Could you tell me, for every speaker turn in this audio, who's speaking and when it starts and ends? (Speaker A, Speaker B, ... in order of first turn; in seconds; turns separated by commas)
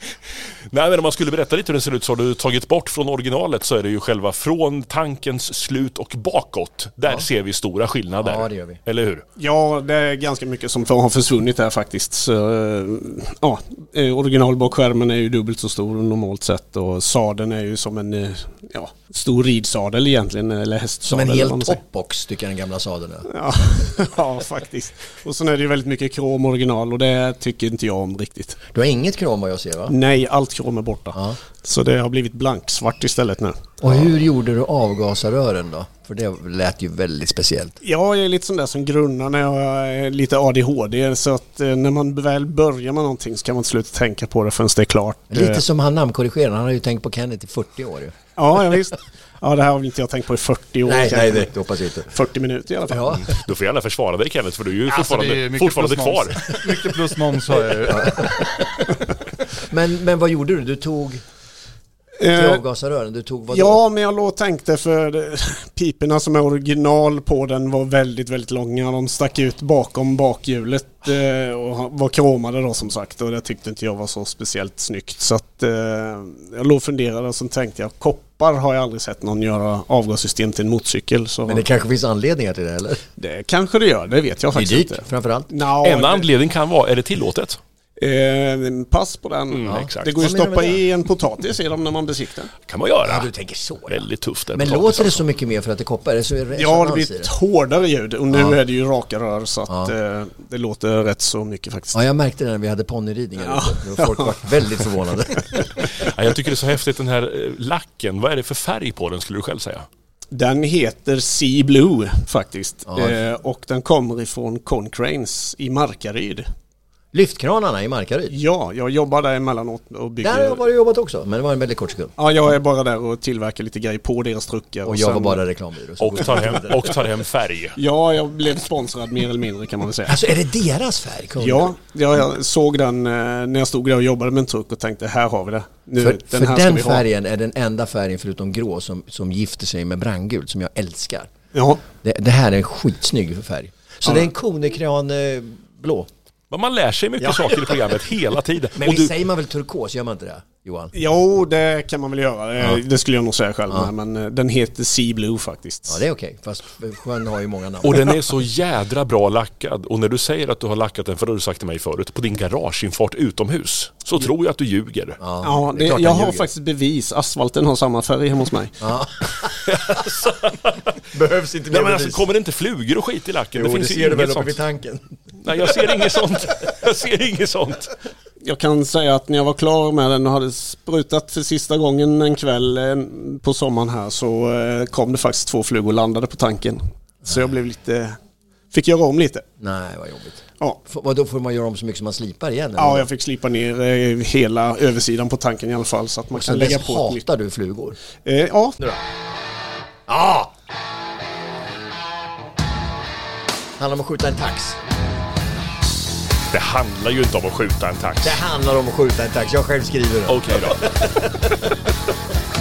Speaker A: 0.7-9.2, Speaker B: 8.2-8.8, Speaker C: 9.4-21.8, Speaker B: 21.0-23.3, Speaker C: 23.3-28.6, Speaker B: 28.7-29.9, Speaker C: 29.9-33.9, Speaker B: 33.8-37.8, Speaker C: 37.8-45.6, Speaker B: 45.3-48.1, Speaker C: 48.4-51.5, Speaker B: 50.9-52.1, Speaker C: 52.1-53.2, Speaker B: 52.9-53.3, Speaker A: 53.3-56.6, Speaker D: 54.9-58.4, Speaker B: 57.8-58.9, Speaker B: 59.5-61.2, Speaker C: 62.2-62.6, Speaker B: 62.2-63.8, Speaker C: 63.5-81.7, Speaker B: 81.5-83.0, Speaker C: 83.2-86.3, Speaker B: 84.5-85.5, Speaker A: 85.8-87.6, Speaker C: 88.0-92.5, Speaker A: 89.5-90.3, Speaker B: 89.7-90.8, Speaker A: 92.7-93.3, Speaker B: 93.0-97.3, Speaker A: 93.9-95.2, Speaker C: 96.5-102.0, Speaker B: 98.3-98.6, Speaker B: 99.7-99.9, Speaker B: 101.9-105.8, Speaker C: 103.5-104.3, Speaker A: 105.9-109.9, Speaker C: 110.3-116.5, Speaker B: 112.9-113.2, Speaker B: 117.1-118.3, Speaker C: 118.3-120.6, Speaker B: 120.2-122.1, Speaker C: 122.2-125.4, Speaker B: 124.8-127.0, Speaker A: 126.0-127.8, Speaker C: 127.8-130.2, Speaker B: 130.1-131.7, Speaker C: 131.4-137.0, Speaker B: 136.0-141.3, Speaker C: 141.5-141.8, Speaker B: 141.9-146.1, Speaker A: 146.5-149.1, Speaker B: 147.2-147.8, Speaker B: 148.8-150.9, Speaker C: 150.9-156.0, Speaker B: 155.9-158.1, Speaker A: 157.8-165.2, Speaker B: 165.2-166.5, Speaker C: 165.4-168.8, Speaker B: 168.8-170.0, Speaker A: 169.7-170.9, Speaker B: 171.1-172.3, Speaker A: 171.7-174.6, Speaker B: 173.5-176.2, Speaker A: 175.4-177.9, Speaker C: 178.4-188.2, Speaker C: 188.7-189.4, Speaker B: 189.6-193.1, Speaker C: 192.8-197.2, Speaker B: 196.3-198.0, Speaker C: 198.2-198.9, Speaker B: 200.1-200.5, Speaker B: 203.8-204.8, Speaker A: 206.5-208.4, Speaker B: 208.2-211.7, Speaker A: 210.3-210.8